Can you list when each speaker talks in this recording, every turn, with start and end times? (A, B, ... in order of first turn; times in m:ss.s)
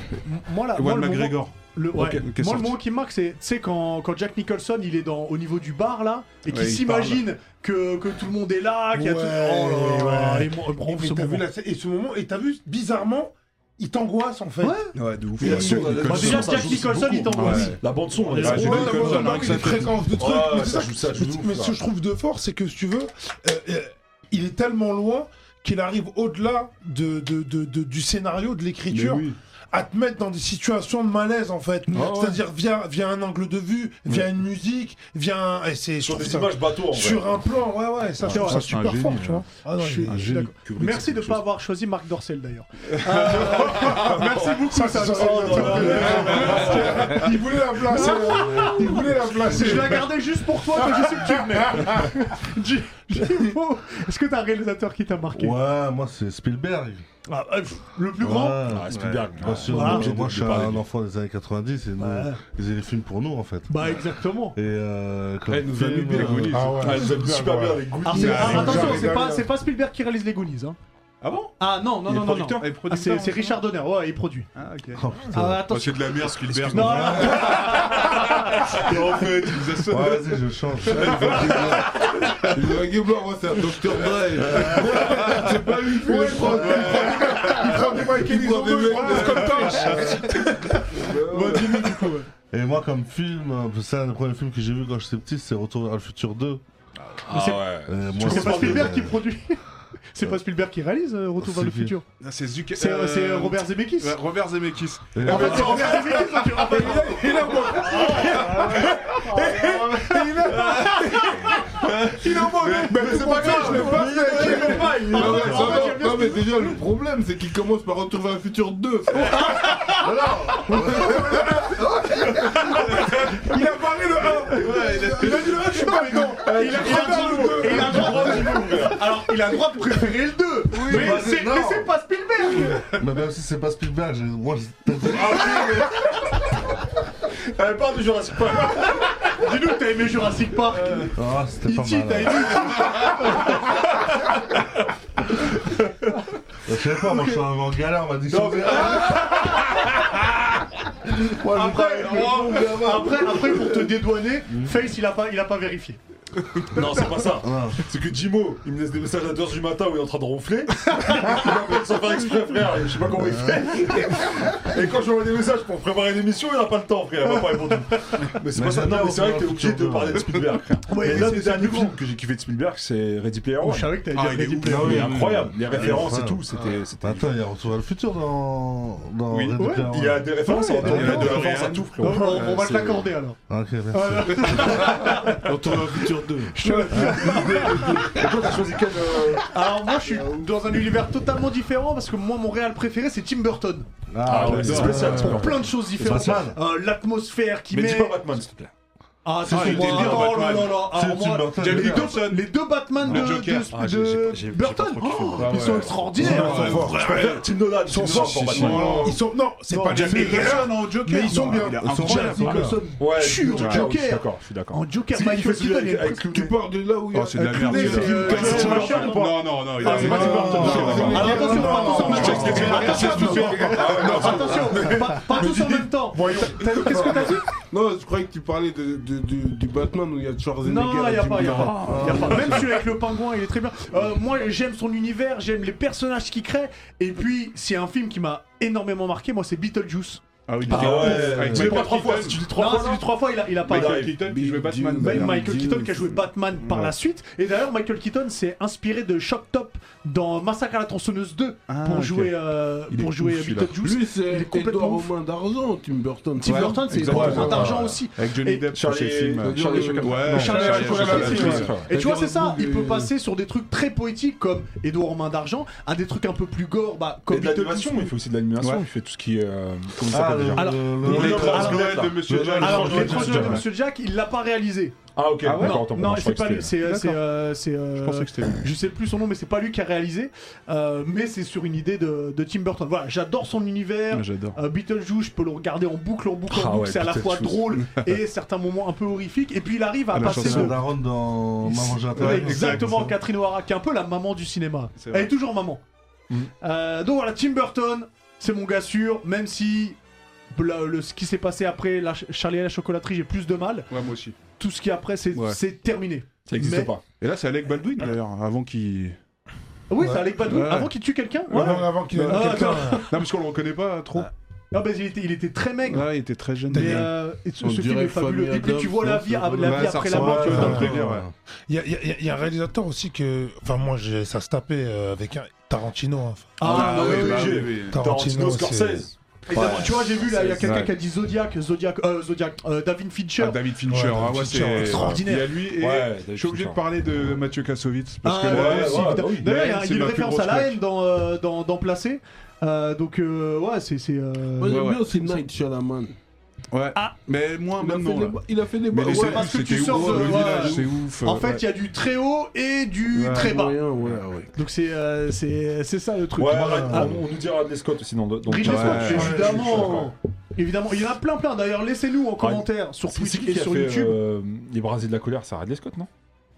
0:00.2-0:11.5 A
0:00.8-0:02.8 B
0:06.5-0:07.3 B
0:08.9-0:14.9 C
0:14.6-0:19.8 A
0:15.0-0:20.1 B
0:15.4-0:21.8 D
0:18.4-0:40.3 C
0:28.9-0:29.4 B
0:36.0-0:37.4 D
0:38.2-0:40.6 B
0:38.3-0:38.7 A
0:39.7-0:47.2 A
0:40.4-0:41.4 D
0:43.2-0:47.3 D
0:44.6-0:52.2 C
0:46.2-0:46.9 B
0:47.9-0:55.6 A
0:55.3-0:57.0 E
0:57.3-0:58.6 A
0:58.2-1:06.6 E
0:58.7-1:00.8 D
0:59.7-1:00.1 A
1:02.0-1:02.4 A
1:03.7-1:04.6 A
1:05.6-1:09.1 D
1:05.6-1:07.2 B
1:06.5-1:09.5 C
1:08.0-1:10.8 A
1:08.1-1:09.0 B
1:11.2-1:11.5 B
1:11.6-1:14.5 A
1:12.1-1:13.6 B
1:12.2-1:12.6 D
1:14.6-1:20.5 B
1:15.0-1:15.7 E
1:15.3-1:18.6 A
1:16.7-1:17.8 E
1:18.7-1:20.2 D
1:19.9-1:21.9 E
1:20.9-1:21.8 D
1:21.1-1:21.5 F
1:21.5-1:21.8 B
1:22.4-1:29.9 F
1:24.5-1:25.0 E
1:25.1-1:25.4 C
1:26.0-1:30.6 C
1:26.4-1:27.6 B
1:28.9-1:30.8 B
1:28.9-1:30.1 A
1:31.0-1:31.8 F
1:31.3-1:32.3 A
1:32.5-1:36.6 E
1:37.3-1:39.0 D
1:37.3-1:39.6 A
1:37.9-1:39.2 E
1:40.1-1:42.1 A
1:41.4-1:42.0 E
1:42.2-1:48.3 B
1:42.8-1:44.2 A
1:45.1-1:46.0 E
1:45.2-1:56.7 A
1:47.0-1:48.7 C
1:49.5-1:50.6 C
1:50.6-1:51.1 B
1:52.2-2:00.5 F
1:52.2-1:55.9 C
1:59.1-2:01.2 A
2:01.0-2:01.8 C
2:02.6-2:08.7 C
2:04.6-2:05.2 D
2:04.6-2:05.6 F
2:05.2-2:12.9 A
2:06.4-2:09.2 D
2:10.8-2:11.9 E
2:13.0-2:15.8 E
2:15.1-2:16.0 D
2:17.5-2:19.1 D
2:19.3-2:23.6 A
2:21.2-2:22.9 E
2:26.7-2:29.4 E
2:28.3-2:29.6 D
2:31.1-2:33.8 E
2:31.5-2:36.0 A
2:32.1-2:33.3 F
2:34.5-2:34.8 E
2:36.7-2:54.0 D
2:37.4-2:37.8 E
2:40.9-2:41.5 A
2:43.4-2:43.6 E
2:48.5-2:50.4 E
2:50.9-2:52.0 A
2:51.0-2:51.4 E
2:53.6-2:55.1 A
2:54.1-2:55.2 B
2:54.6-3:01.5 E
2:54.7-2:57.3 D
2:59.4-3:02.8 D
2:59.6-2:59.9 A
3:00.4-3:03.4 A
3:00.6-3:03.0 B
3:03.5-3:05.0 E
3:03.9-3:05.4 A
3:05.3-3:08.6 F
3:05.5-3:07.0 B
3:06.5-3:08.0 A
3:07.0-3:07.4 E
3:07.5-3:09.5 D
3:09.5-3:13.9 A
3:10.2-3:10.5 F
3:14.1-3:16.6 E
3:14.2-3:16.5 D
3:14.4-3:15.5 B
3:14.6-3:18.2 A
3:17.7-3:18.7 D
3:19.2-3:26.9 A
3:19.4-3:22.2 E
3:19.4-3:23.7 B
3:23.1-3:29.1 D
3:25.4-3:27.1 B
3:26.2-3:27.4 C
3:26.5-3:27.4 F
3:27.9-3:32.4 C
3:28.0-3:29.2 B
3:28.7-3:29.1 F
3:29.7-3:30.7 A
3:29.8-3:32.7 B
3:31.3-3:36.5 A
3:31.8-3:32.9 E
3:33.0-3:36.6 D
3:33.5-3:33.9 B
3:36.3-3:45.8 F
3:37.1-3:45.0 B
3:37.3-3:47.4 A
3:38.3-3:39.2 D
3:39.8-3:44.8 D
3:39.9-3:42.8 E
3:41.2-3:42.3 C
3:46.1-3:47.4 C
3:46.5-3:52.7 F
3:50.6-4:01.7 A
3:51.4-3:52.6 B
3:51.9-3:52.6 E
4:00.5-4:02.5 B
4:00.7-4:04.2 D
4:00.7-4:01.8 E
4:02.5-4:04.1 A
4:03.7-4:06.9 B
4:04.2-4:06.1 F
4:05.0-4:15.1 A
4:11.7-4:13.8 B
4:13.8-4:17.7 F
4:16.4-4:18.7 A
4:16.4-4:21.8 B
4:17.1-4:17.9 D
4:18.7-4:21.9 D
4:19.4-4:23.1 F
4:20.2-4:28.1 A
4:27.3-4:33.6 D
4:28.6-4:28.8 B
4:30.1-4:33.7 E
4:30.6-4:35.0 A
4:31.0-4:33.7 B
4:35.2-4:36.8 D
4:35.4-4:35.9 B
4:35.6-4:50.8 A
4:36.8-4:37.2 B
4:38.0-4:38.7 B
4:44.1-4:44.6 B
4:46.5-4:47.8 D
4:47.8-4:48.2 B
4:50.1-4:50.8 B
4:50.2-4:53.1 E
4:51.6-4:53.2 B
4:52.2-4:55.8 A
4:55.0-4:55.3 B
4:56.6-5:00.0 A
5:00.5-5:03.9 A
5:03.9-5:04.4 B
5:04.6-5:06.9 A
5:05.3-5:05.6 B
5:06.5-5:07.0 D
5:07.2-5:09.2 B
5:09.9-5:13.1 A
5:10.4-5:10.9 B
5:11.5-5:14.3 B
5:11.5-5:13.1 C
5:14.7-5:16.1 A
5:15.9-5:17.1 B
5:16.7-5:21.0 A
5:17.6-5:20.3 F
5:19.6-5:21.3 B
5:20.1-5:21.3 E
5:20.5-5:21.0 C
5:21.7-5:26.6 C
5:26.6-5:27.7 A
5:26.6-5:28.1 B
5:26.6-5:30.9 D
5:27.9-5:29.1 C
5:29.5-5:33.6 A
5:29.6-5:29.8 B
5:30.6-5:30.9 B
5:33.4-5:40.8 B
5:33.9-5:35.2 C
5:34.8-5:35.6 A
5:35.8-5:36.8 D
5:38.2-5:44.9 A
5:38.4-5:39.5 D
5:44.6-5:46.1 F
5:44.6-5:45.2 B
5:46.7-5:51.6 B
5:47.8-5:50.9 F
5:49.1-5:53.8 A
5:53.1-5:54.2 B
5:53.2-5:54.5 F
5:54.6-5:57.2 A
5:56.4-6:00.1 D
5:58.5-6:04.2 A
5:58.6-5:59.6 B
5:59.0-6:00.0 E
6:02.4-6:06.1 D